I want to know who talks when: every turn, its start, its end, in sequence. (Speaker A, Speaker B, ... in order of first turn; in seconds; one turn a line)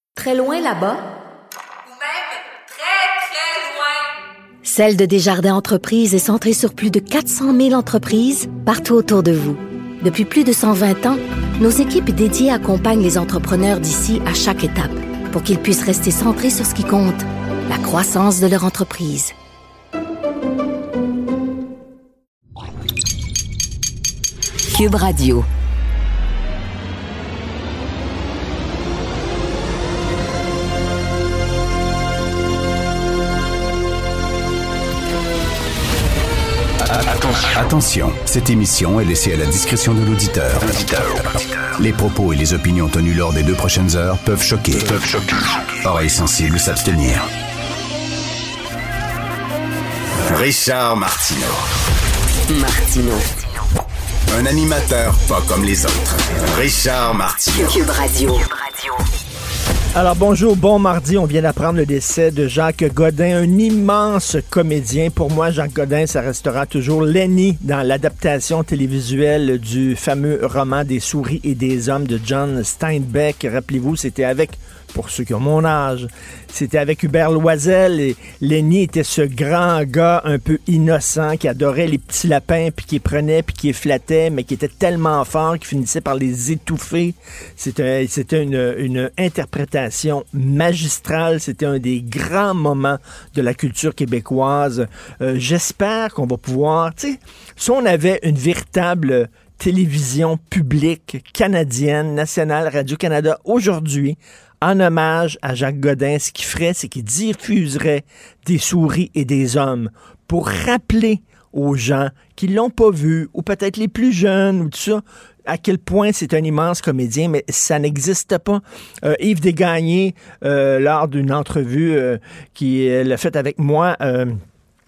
Speaker A: 1.8-4.1
Speaker B: 4.6-19.3
Speaker B: 24.7-25.5
Speaker C: 36.8-47.3
Speaker C: 50.3-51.7
Speaker D: 52.5-53.2
Speaker C: 54.3-57.8
Speaker D: 57.6-58.9
Speaker E: 60.0-124.3